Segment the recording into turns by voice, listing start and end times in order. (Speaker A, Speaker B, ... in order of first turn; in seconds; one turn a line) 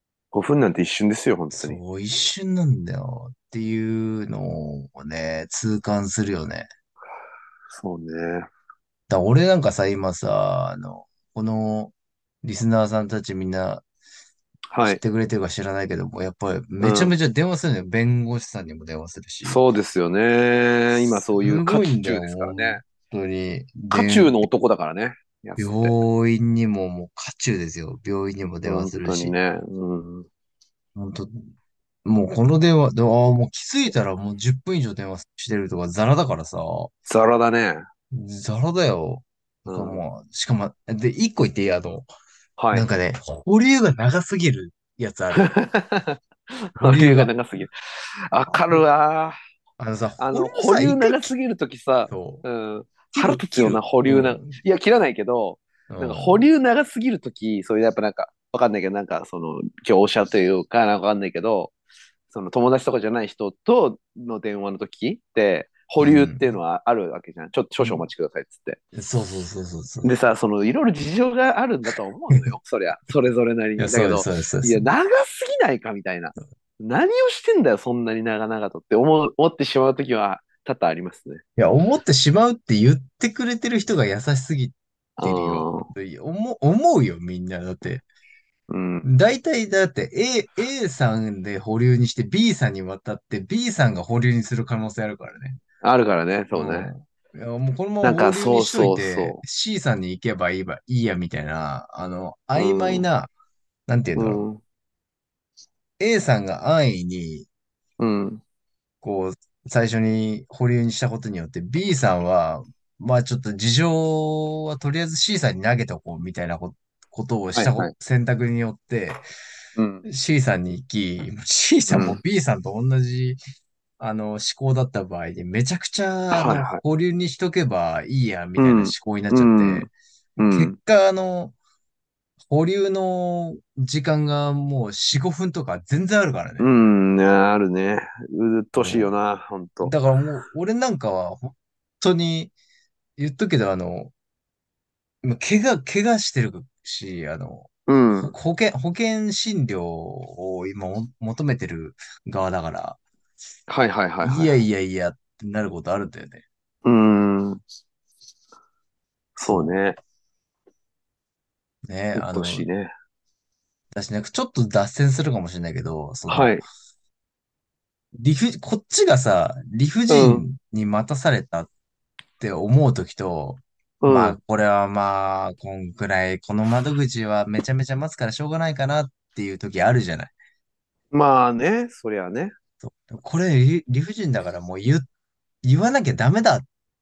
Speaker A: 0.3-1.8
Speaker B: 1.5-6.7
Speaker A: 7.7-8.5
Speaker B: 9.1-13.8
Speaker A: 14.7-15.0
Speaker B: 14.8-19.6
Speaker A: 16.8-17.1
Speaker A: 19.4-22.8
Speaker B: 21.1-24.3
Speaker A: 23.9-26.0
Speaker B: 25.6-29.3
Speaker A: 28.6-30.3
Speaker B: 30.9-31.5
Speaker B: 32.0-36.9
Speaker A: 37.1-37.8
Speaker B: 38.1-42.1
Speaker A: 39.6-40.0
Speaker A: 42.6-42.9
Speaker B: 42.7-45.5
Speaker A: 45.3-46.2
Speaker A: 46.7-49.4
Speaker B: 46.8-47.3
Speaker B: 48.5-48.8
Speaker B: 49.8-51.3
Speaker A: 50.2-61.7
Speaker B: 52.1-52.4
Speaker B: 53.1-54.6
Speaker B: 55.9-56.4
Speaker A: 62.3-68.8
Speaker B: 66.0-66.5
Speaker B: 67.8-68.0
Speaker B: 68.9-70.1
Speaker A: 70.0-81.4
Speaker B: 73.8-74.8
Speaker B: 81.6-88.0
Speaker A: 85.2-85.9
Speaker A: 88.7-89.1
Speaker B: 89.0-95.6
Speaker A: 95.8-96.9
Speaker B: 96.5-103.3
Speaker A: 98.0-99.4
Speaker A: 102.5-103.1
Speaker B: 103.9-104.4
Speaker A: 104.2-104.6
Speaker B: 106.0-107.5
Speaker A: 108.0-108.4
Speaker B: 109.0-119.2
Speaker A: 117.5-117.9
Speaker A: 119.8-120.0
Speaker B: 120.0-123.4
Speaker A: 121.9-122.2
Speaker B: 124.0-131.5
Speaker A: 126.3-126.8
Speaker A: 128.6-130.8
Speaker B: 132.5-136.7
Speaker A: 136.6-139.9
Speaker B: 138.8-139.1
Speaker B: 139.8-142.5
Speaker B: 143.2-144.1
Speaker B: 145.2-153.0
Speaker A: 147.9-148.3
Speaker A: 153.7-154.6
Speaker B: 154.2-156.4
Speaker A: 156.8-157.6
Speaker A: 159.3-160.0
Speaker B: 161.8-162.7
Speaker A: 162.1-162.9
Speaker B: 163.9-166.6
Speaker A: 166.3-166.6
Speaker B: 168.1-171.7
Speaker A: 170.1-170.4
Speaker B: 172.4-180.3
Speaker A: 174.0-174.4
Speaker A: 181.1-182.5
Speaker B: 182.8-185.1
Speaker B: 185.6-186.7